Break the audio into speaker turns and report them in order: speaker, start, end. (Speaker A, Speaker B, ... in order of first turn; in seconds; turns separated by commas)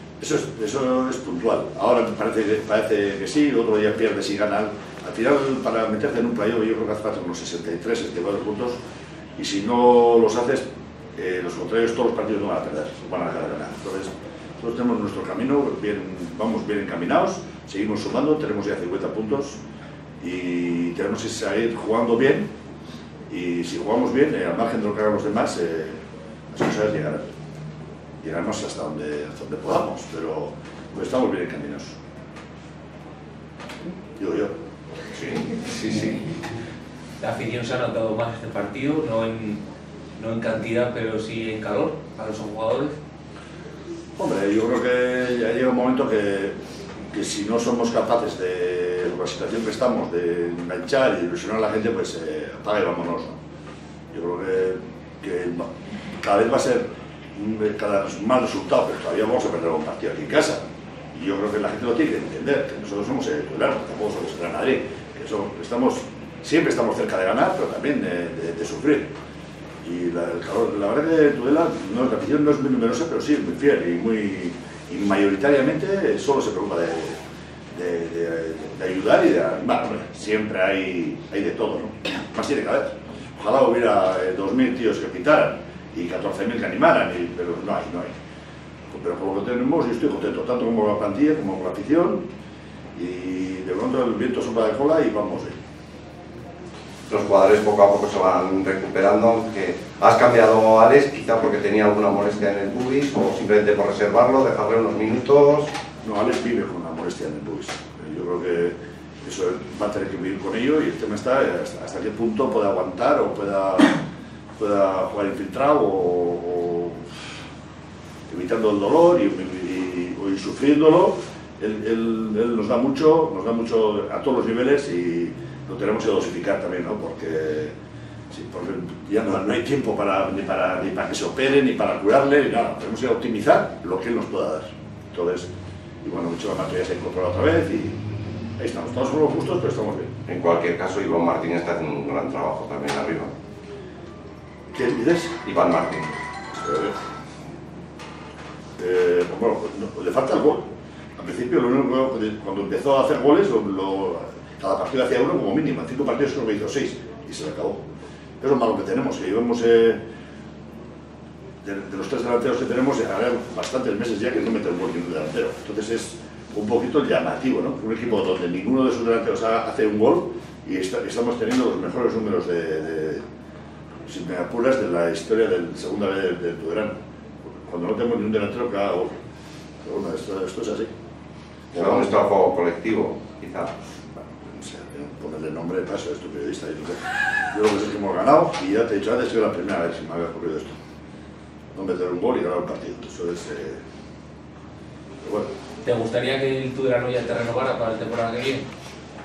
Speaker A: 0.2-8.8, Speaker A: 9.4-10.7, Speaker A: 11.2-19.6, Speaker A: 20.2-22.5, Speaker A: 23.3-26.0, Speaker A: 26.5-27.3, Speaker A: 28.2-32.0, Speaker A: 34.2-34.5, Speaker B: 35.1-36.1, Speaker C: 35.9-36.2, Speaker C: 37.2-39.6, Speaker C: 40.2-43.0, Speaker A: 44.2-46.5, Speaker A: 47.1-53.4, Speaker A: 54.1-55.7, Speaker A: 56.2-56.8, Speaker A: 57.4-69.1, Speaker A: 69.8-77.2, Speaker A: 77.7-88.1, Speaker A: 88.9-92.3, Speaker A: 93.0-95.6, Speaker B: 97.1-105.7, Speaker A: 106.0-114.0, Speaker A: 114.6-117.1, Speaker A: 118.3-127.7, Speaker A: 128.3-135.5, Speaker A: 136.0-138.0, Speaker A: 138.6-140.1, Speaker B: 140.3-143.3, Speaker A: 144.7-145.4, Speaker B: 145.4-146.1, Speaker A: 146.5-146.9, Speaker A: 148.8-157.8, Speaker A: 158.4-160.0, Speaker A: 161.6-173.2, Speaker A: 174.1-177.0, Speaker A: 177.6-179.1, Speaker A: 179.8-180.9, Speaker A: 181.7-182.2, Speaker B: 181.7-183.7, Speaker A: 184.5-190.8, Speaker A: 191.8-193.8, Speaker A: 195.2-195.5, Speaker C: 195.8-198.7